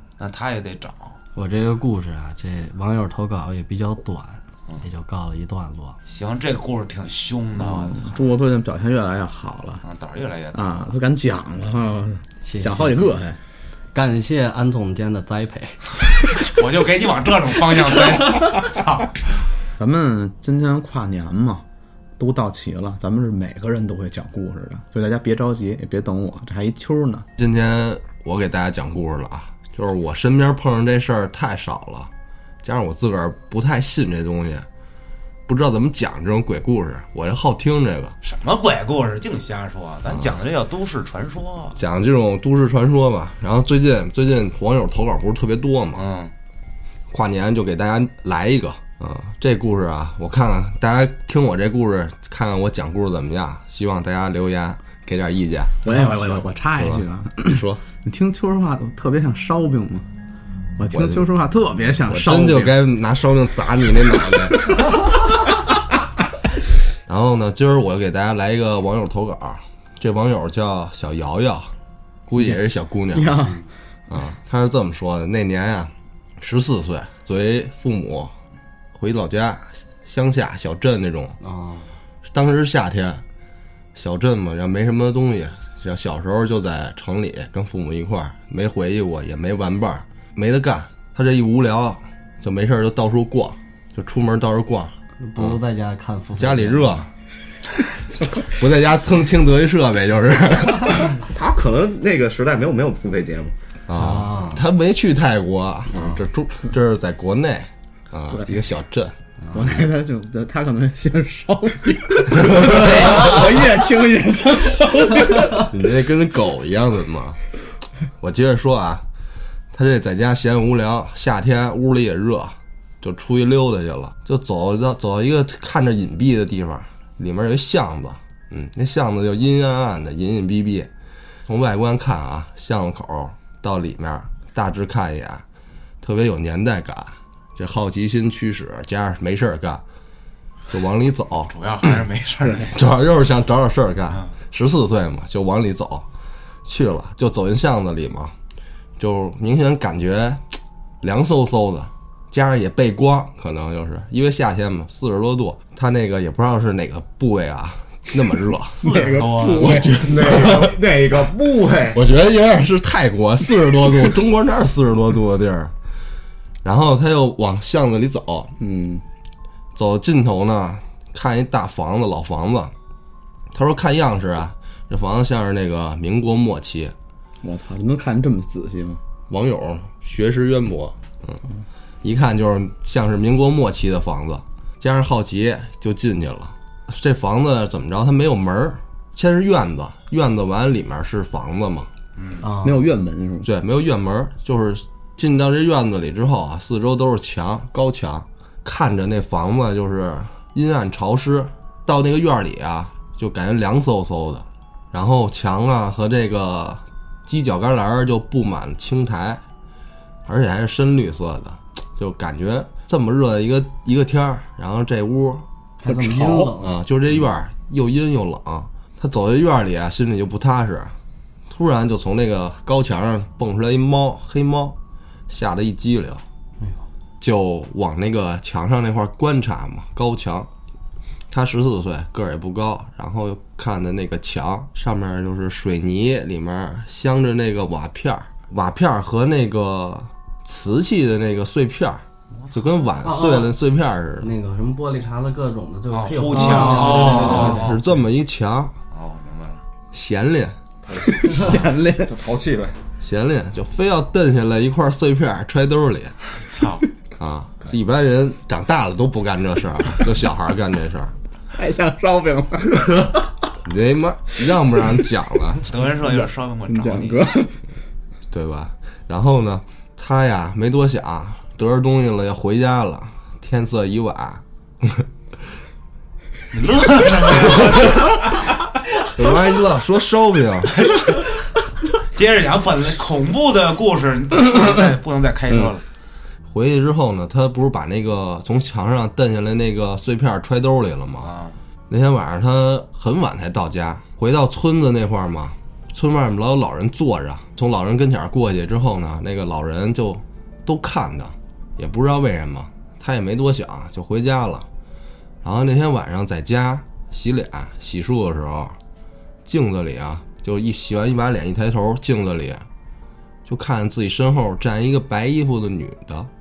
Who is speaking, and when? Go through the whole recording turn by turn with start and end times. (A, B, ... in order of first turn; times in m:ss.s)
0:00.2-0:01.2 A
0:01.3-0:06.0 B
0:06.0-0:08.2 A
0:07.6-0:09.8 C
0:09.8-0:10.7 A
0:10.5-0:13.4 C
0:12.4-0:13.2 B
0:13.9-0:15.8 B
0:16.4-0:19.4 A
0:19.8-0:21.6 C
0:22.2-0:27.2 C
0:27.4-0:32.1 D
0:32.6-0:34.6 D
0:35.5-0:38.1 D
0:38.2-0:41.8 A
0:41.8-0:46.0 D
0:45.9-0:46.3 A
0:47.1-0:55.8 D
0:55.8-1:00.0 C
0:55.9-0:56.1 A
0:56.8-0:57.8 D
1:00.8-1:02.8 C
1:00.9-1:01.3 D
1:02.1-1:04.8 D
1:07.1-1:11.7 D
1:12.3-1:13.5 D
1:13.1-1:13.6 C
1:14.1-1:18.3 D
1:18.9-1:21.4 D
1:21.4-1:21.9 B
1:22.3-1:23.2 D
1:23.9-1:35.6 D
1:35.2-1:37.0 B
1:36.4-1:37.1 D
1:38.5-1:41.1 D
1:41.2-1:43.5 E
1:43.9-1:49.1 D
1:44.0-1:44.6 B
1:49.5-1:55.6 C
1:52.5-1:53.2 D
1:55.7-1:57.4 D
1:58.2-1:59.0 D
1:59.7-2:10.9 D
2:11.4-2:15.4 D
2:16.0-2:19.8 D
2:20.7-2:21.5 D
2:21.5-2:22.8 A
2:22.6-2:26.0 D
2:26.6-2:28.3 D
2:29.0-2:30.4 D
2:31.0-2:38.8 D
2:38.7-2:40.5 C
2:38.8-2:39.9 A
2:39.6-2:40.7 D
2:39.8-2:42.0 E
2:41.9-2:45.7 D
2:46.6-2:48.5 D
2:48.6-2:49.0 C
2:49.7-2:52.7 D
2:53.5-2:56.9 D
2:57.4-2:59.0 C
2:59.3-3:01.4 D
3:02.0-3:11.9 D
3:12.2-3:12.5 A
3:12.4-3:12.8 B
3:12.6-3:13.5 C
3:13.4-3:29.4 D
3:30.2-3:35.4 D
3:35.8-3:36.8 B
3:36.4-3:40.9 D
3:41.5-3:44.8 D
3:45.3-3:46.2 D
3:47.2-3:50.5 D
3:51.3-4:04.3 D
4:02.3-4:02.8 A
4:03.0-4:03.5 B
4:04.2-4:07.9 B
4:05.9-4:07.8 A
4:06.4-4:07.2 C
4:06.9-4:08.7 D
4:08.9-4:09.6 A
4:09.9-4:10.6 D
4:10.8-4:12.8 E
4:11.0-4:12.1 C
4:13.0-4:16.1 D
4:16.4-4:16.8 A
4:17.2-4:21.1 D
4:21.5-4:23.2 C
4:23.6-4:25.7 D
4:25.6-4:27.3 A
4:26.0-4:27.6 C
4:28.3-4:35.0 D
4:36.5-4:38.4 A
4:39.1-4:40.8 D
4:40.8-4:41.2 A
4:42.0-4:45.8 A
4:46.5-4:51.3 D
4:51.2-4:51.6 A
4:51.9-5:04.7 D
5:05.4-5:08.8 D
5:09.4-5:12.6 D
5:13.4-5:16.3 D